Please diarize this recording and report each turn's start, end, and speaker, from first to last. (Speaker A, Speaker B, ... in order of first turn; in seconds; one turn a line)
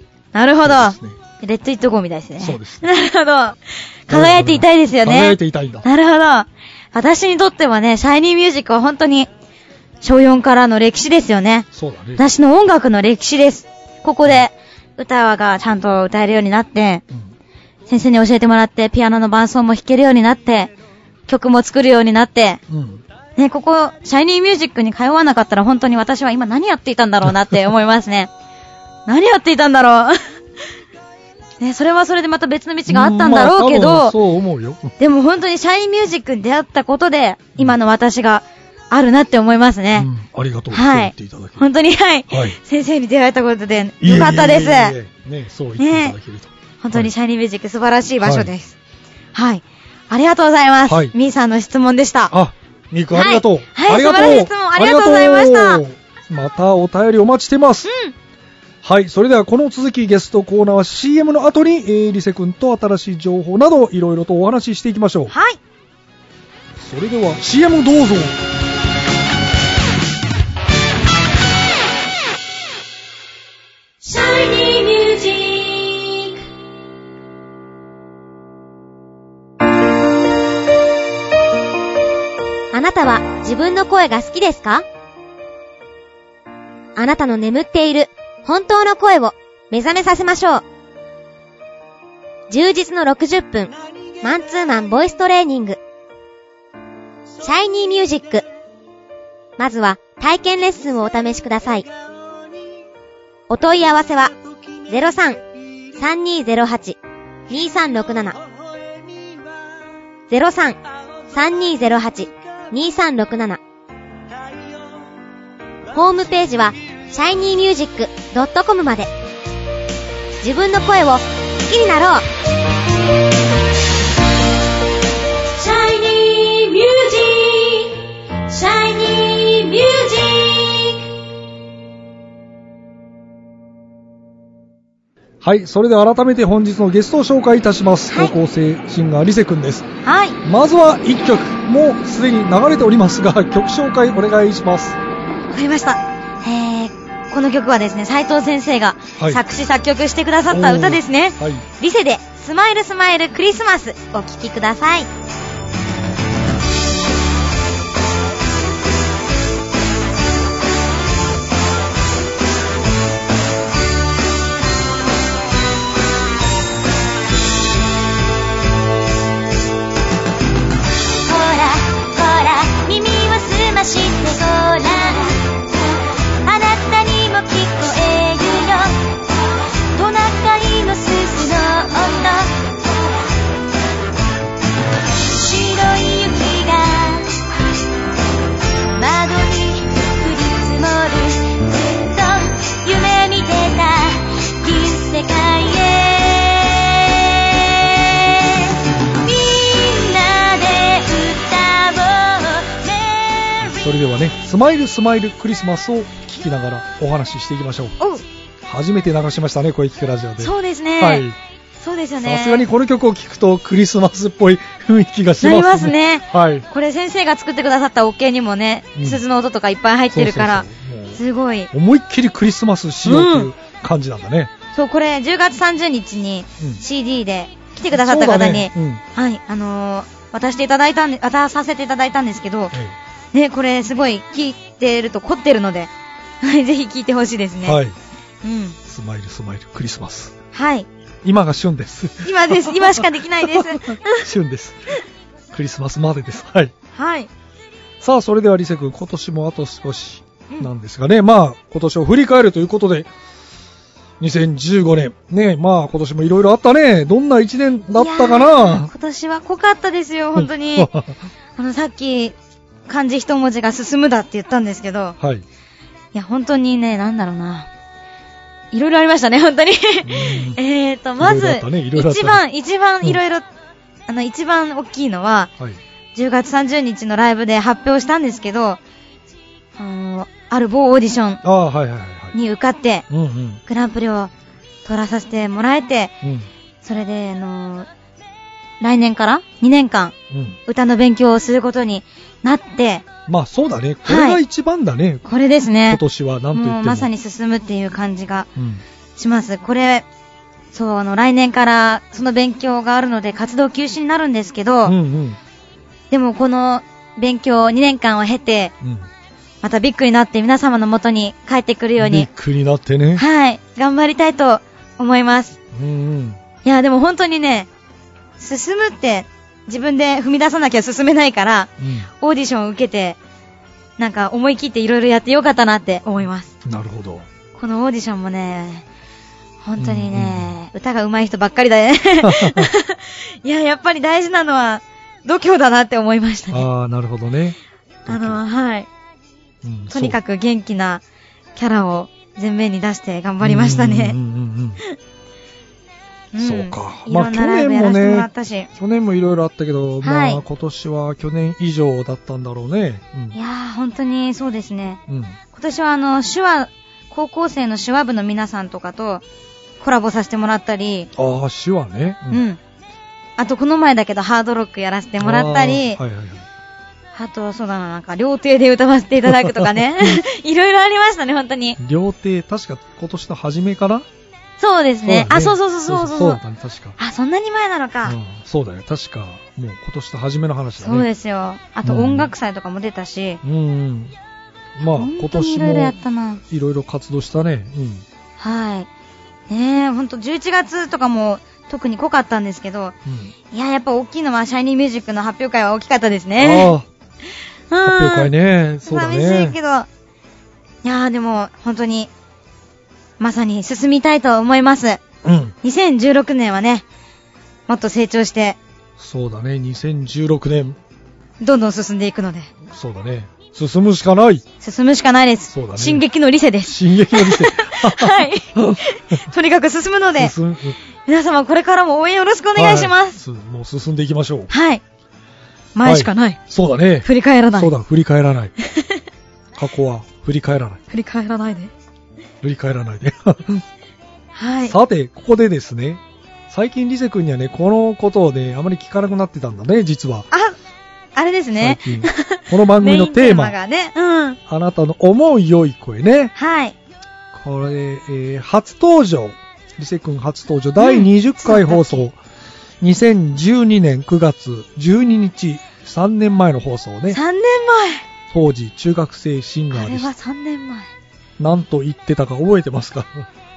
Speaker A: 0.3-9.3
Speaker B: 0.6-1.2
Speaker B: 2.4-2.9
Speaker B: 4.1-5.8
Speaker A: 10.0-17.0
Speaker B: 11.7-12.2
Speaker A: 17.9-20.7
Speaker A: 21.3-22.6
Speaker B: 22.7-23.0
Speaker A: 23.4-28.3
Speaker A: 29.1-30.2
Speaker A: 31.6-34.1
Speaker B: 32.9-34.9
Speaker A: 35.0-40.1
Speaker B: 39.9-41.6
Speaker A: 40.7-45.0
Speaker B: 42.3-42.6
Speaker B: 44.0-47.1
Speaker A: 45.8-46.1
Speaker A: 46.8-48.7
Speaker B: 48.2-48.5
Speaker A: 49.3-52.3
Speaker B: 50.9-51.1
Speaker B: 52.3-57.9
Speaker A: 53.1-55.8
Speaker A: 57.9-58.1
Speaker B: 58.8-65.3
Speaker A: 65.3-65.6
Speaker B: 66.8-68.4
Speaker C: 74.0-76.4
Speaker C: 82.7-84.8
Speaker C: 87.0-90.6
Speaker C: 92.5-95.8
Speaker C: 97.4-98.4
Speaker C: 99.6-101.9
Speaker C: 103.5-104.3
Speaker C: 104.9-105.4
Speaker C: 106.0-107.0
Speaker C: 107.5-108.4
Speaker C: 110.3-110.8
Speaker C: 111.3-113.6
Speaker C: 115.9-119.1
Speaker C: 120.4-122.2
Speaker C: 125.5-131.1
Speaker B: 135.4-139.9
Speaker A: 140.0-140.4
Speaker B: 140.4-145.0
Speaker A: 145.5-155.1
Speaker B: 150.5-151.6
Speaker C: 171.2-175.6
Speaker C: 176.4-179.1
Speaker C: 179.9-182.6
Speaker C: 185.2-187.4
Speaker C: 188.9-203.9
Speaker B: 203.7-208.0
Speaker A: 208.0-208.2
Speaker B: 208.6-211.3
Speaker A: 210.4-211.2
Speaker A: 211.8-212.7
Speaker B: 212.2-216.7
Speaker A: 215.4-221.7
Speaker B: 220.1-221.2
Speaker B: 221.7-224.5
Speaker A: 223.0-223.5
Speaker A: 224.7-232.7
Speaker B: 227.9-229.0
Speaker A: 233.3-237.8
Speaker B: 237.6-237.9
Speaker A: 238.4-238.8
Speaker B: 238.8-240.3
Speaker A: 240.5-240.9
Speaker B: 241.2-244.9
Speaker A: 242.2-244.2
Speaker B: 245.5-246.7
Speaker A: 246.9-247.3
Speaker B: 248.0-253.1
Speaker B: 254.2-258.9
Speaker A: 257.9-260.9
Speaker B: 260.3-261.1
Speaker A: 261.6-262.4
Speaker A: 262.9-265.1
Speaker A: 266.1-267.7
Speaker A: 268.7-273.4
Speaker B: 270.1-270.6
Speaker B: 271.2-272.4
Speaker A: 274.1-275.5
Speaker A: 276.1-278.8
Speaker A: 279.8-281.4
Speaker B: 281.4-282.4
Speaker A: 282.3-283.0
Speaker B: 283.1-283.6
Speaker A: 283.6-284.3
Speaker A: 284.8-286.1
Speaker B: 286.2-286.5
Speaker A: 286.8-287.9
Speaker A: 288.8-290.1
Speaker B: 290.3-290.6
Speaker A: 290.6-293.0
Speaker B: 293.3-295.2
Speaker A: 294.1-294.4
Speaker A: 295.2-296.0
Speaker B: 295.9-297.1
Speaker A: 296.5-298.5
Speaker B: 298.6-298.8
Speaker A: 299.1-300.1
Speaker A: 300.7-304.9
Speaker B: 304.8-305.4
Speaker A: 306.1-308.7
Speaker B: 308.8-309.1
Speaker A: 309.6-312.3
Speaker B: 312.0-313.2
Speaker A: 313.1-315.6
Speaker B: 315.7-316.4
Speaker A: 316.6-317.7
Speaker A: 318.4-323.2
Speaker B: 321.8-322.1
Speaker A: 324.0-326.5
Speaker B: 326.6-327.3
Speaker A: 327.6-328.8
Speaker A: 329.6-336.7
Speaker B: 329.8-330.5
Speaker B: 332.2-332.7
Speaker B: 336.5-338.4
Speaker A: 338.1-338.9
Speaker B: 339.6-340.2
Speaker A: 339.9-341.0
Speaker A: 341.5-344.2
Speaker B: 343.4-344.8
Speaker A: 346.3-348.7
Speaker B: 346.4-353.4
Speaker A: 350.0-350.4
Speaker A: 353.3-355.0
Speaker B: 355.1-355.4
Speaker A: 355.5-359.2
Speaker A: 359.8-361.1
Speaker B: 361.1-362.4
Speaker A: 362.3-362.6
Speaker A: 363.4-366.0
Speaker B: 365.2-366.4
Speaker A: 367.1-371.8
Speaker B: 369.3-370.2
Speaker B: 371.8-374.1
Speaker A: 374.6-376.4
Speaker B: 375.0-377.0
Speaker A: 377.0-378.2
Speaker B: 378.0-381.1
Speaker A: 380.8-383.4
Speaker B: 381.8-382.3
Speaker B: 383.4-384.1
Speaker B: 384.8-386.0
Speaker A: 384.9-386.4
Speaker B: 386.5-388.0
Speaker A: 388.4-388.9
Speaker A: 389.5-392.9
Speaker B: 393.1-393.3
Speaker A: 393.5-396.7
Speaker B: 396.4-396.9
Speaker A: 397.7-398.3
Speaker B: 397.8-399.6
Speaker A: 398.9-399.9
Speaker A: 400.8-402.1
Speaker A: 403.2-405.0
Speaker B: 405.2-405.5
Speaker A: 405.6-406.8
Speaker A: 407.7-408.6
Speaker B: 409.0-410.8
Speaker A: 411.4-412.5
Speaker B: 412.7-414.4
Speaker A: 414.6-420.3
Speaker B: 415.5-416.0
Speaker B: 416.6-418.8
Speaker B: 420.1-420.8
Speaker A: 421.1-423.2
Speaker B: 422.5-424.5
Speaker A: 424.5-424.8
Speaker A: 425.7-426.4
Speaker B: 425.8-428.5
Speaker A: 427.0-427.7
Speaker A: 428.6-429.0
Speaker B: 429.6-430.8
Speaker A: 430.9-431.7
Speaker B: 432.4-433.6
Speaker A: 434.3-434.8
Speaker B: 434.6-440.3
Speaker A: 441.1-444.4
Speaker B: 441.6-443.6
Speaker B: 444.5-446.3
Speaker A: 446.4-446.8
Speaker B: 447.3-452.2
Speaker A: 450.8-452.0
Speaker B: 452.8-457.2
Speaker A: 457.1-458.1
Speaker B: 458.3-460.1
Speaker A: 459.7-460.9
Speaker B: 461.4-463.2